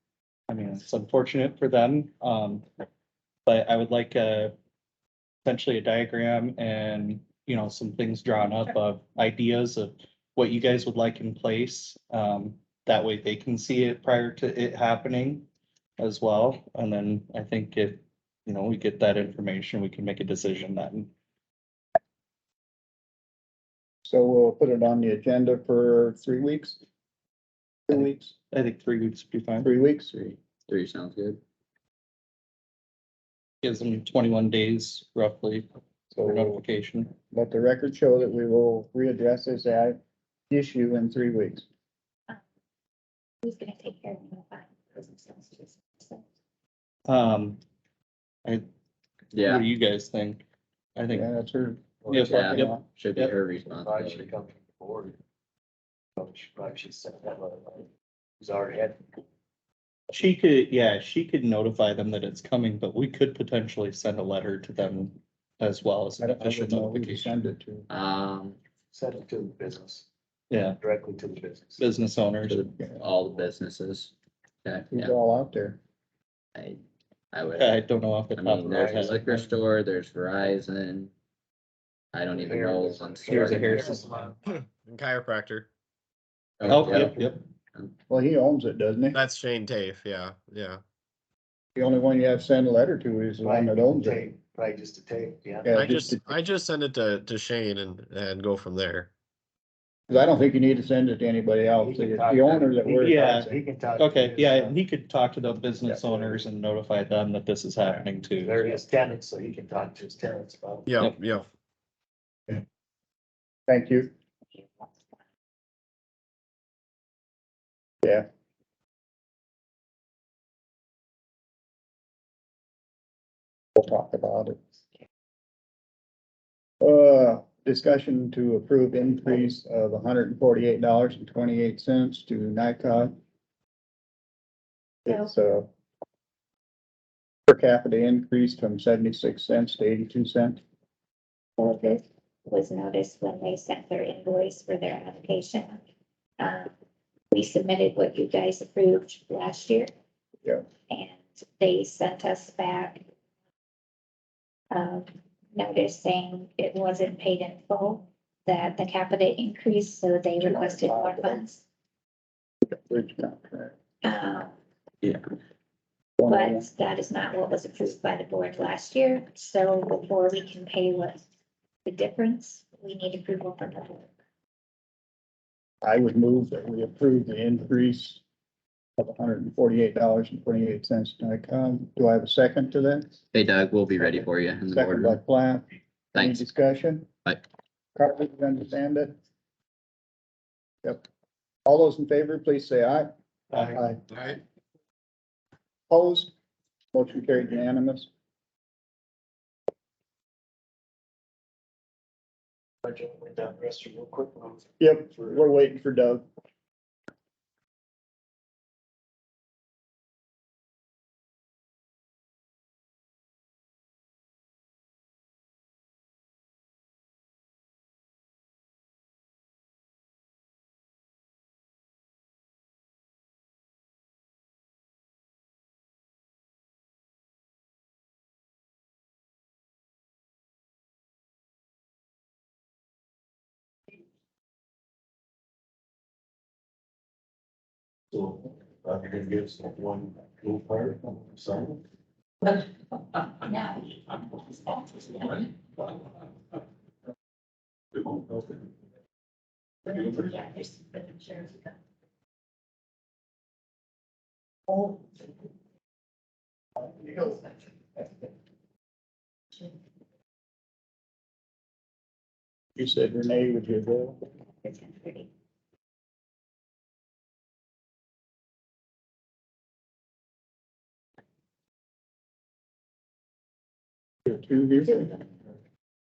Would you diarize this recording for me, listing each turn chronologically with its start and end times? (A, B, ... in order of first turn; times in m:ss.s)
0:00.5-0:02.6 A
0:03.5-0:04.5 A
0:05.4-0:15.5 A
0:16.0-0:21.1 A
0:24.1-0:26.8 B
0:27.9-0:28.4 B
0:27.9-0:29.7 A
0:29.6-0:30.1 B
0:30.1-0:31.4 C
0:33.6-0:35.7 A
0:36.1-0:36.6 B
0:36.2-0:37.1 A
0:37.3-0:40.0 B
0:40.5-0:41.7 B
0:43.4-0:46.2 D
0:47.1-0:47.6 A
0:49.3-0:49.6 C
0:49.4-0:50.4 A
0:51.0-0:51.2 A
0:51.1-0:52.8 B
0:52.1-0:53.3 A
0:52.2-0:54.3 C
0:53.8-0:55.2 E
0:56.2-0:57.9 E
0:58.4-0:59.1 E
1:00.1-1:07.3 A
1:06.2-1:07.9 B
1:07.9-1:08.6 C
1:08.9-1:10.1 E
1:10.5-1:10.8 A
1:10.8-1:11.8 E
1:11.8-1:12.7 A
1:12.5-1:14.1 C
1:14.6-1:15.2 C
1:14.9-1:15.8 B
1:16.6-1:16.8 C
1:17.3-1:17.8 C
1:17.6-1:19.4 A
1:18.3-1:21.1 C
1:18.6-1:19.2 E
1:22.1-1:23.8 C
1:22.3-1:24.4 E
1:23.3-1:24.2 A
1:24.4-1:25.7 F
1:26.6-1:27.1 C
1:26.6-1:27.4 A
1:26.6-1:27.3 E
1:28.1-1:29.2 B
1:29.1-1:30.8 F
1:31.8-1:34.3 B
1:33.4-1:35.9 E
1:35.6-1:36.2 B
1:35.7-1:39.1 F
1:40.1-1:43.6 B
1:41.8-1:44.8 E
1:42.9-1:48.7 A
1:45.8-1:46.4 B
1:48.4-1:50.9 E
1:50.9-1:51.5 F
1:53.7-1:54.1 B
1:54.6-1:54.9 D
2:03.8-2:04.6 B
2:06.8-2:13.2 B
2:15.1-2:15.7 B
2:17.5-2:20.6 B
2:21.6-2:25.8 D
2:26.4-2:26.7 D
2:27.3-2:29.9 D
2:30.9-2:33.0 D
2:34.7-2:41.6 D
2:40.4-2:41.4 B
2:42.7-2:43.7 B
2:44.0-2:44.5 D
2:46.2-2:46.7 B
2:46.3-2:51.2 D
2:51.8-2:54.1 D
2:55.8-2:58.2 B
2:59.0-3:03.2 B
3:03.3-3:05.2 C
3:04.0-3:07.1 B
3:06.2-3:06.4 C
3:08.0-3:09.2 B
3:11.7-3:14.0 B
3:14.1-3:14.4 F
3:15.9-3:16.3 B
3:16.9-3:18.1 B
3:22.8-3:25.4 E
3:24.8-3:26.3 B
3:58.1-4:01.8 E
4:02.4-4:05.5 D
4:09.8-4:11.7 D
4:22.8-4:24.2 B
4:24.6-4:25.3 D
4:34.3-4:35.1 B